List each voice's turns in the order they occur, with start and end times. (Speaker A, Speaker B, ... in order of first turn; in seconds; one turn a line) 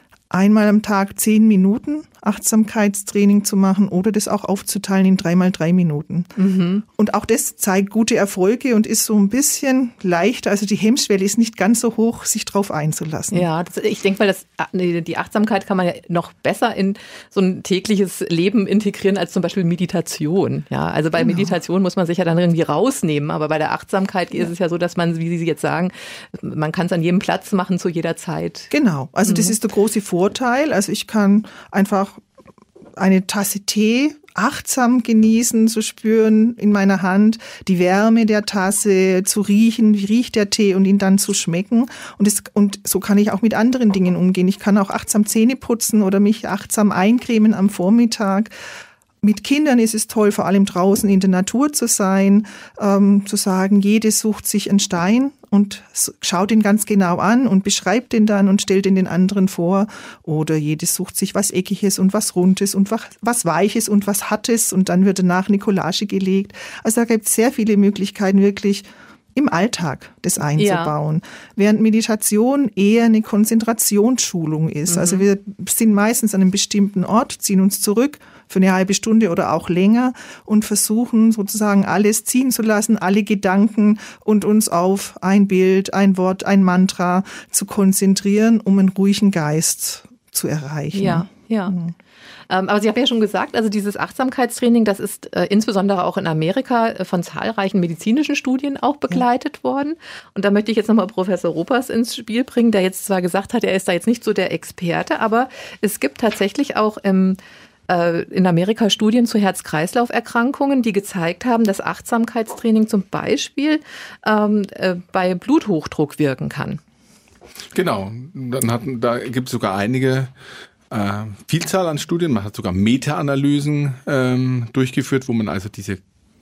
Speaker A: 0.3-6.3
Speaker B: 6.3-6.8
Speaker A: 6.9-13.5
Speaker B: 13.3-28.7
Speaker A: 21.2-21.5
Speaker A: 28.7-32.2
Speaker B: 29.2-29.5
Speaker A: 33.0-48.5
Speaker A: 49.2-91.9
Speaker B: 70.6-70.9
Speaker B: 74.9-75.2
Speaker B: 90.9-91.8
Speaker B: 92.5-107.4
Speaker B: 107.9-116.8
Speaker C: 117.7-120.3
Speaker C: 120.9-126.0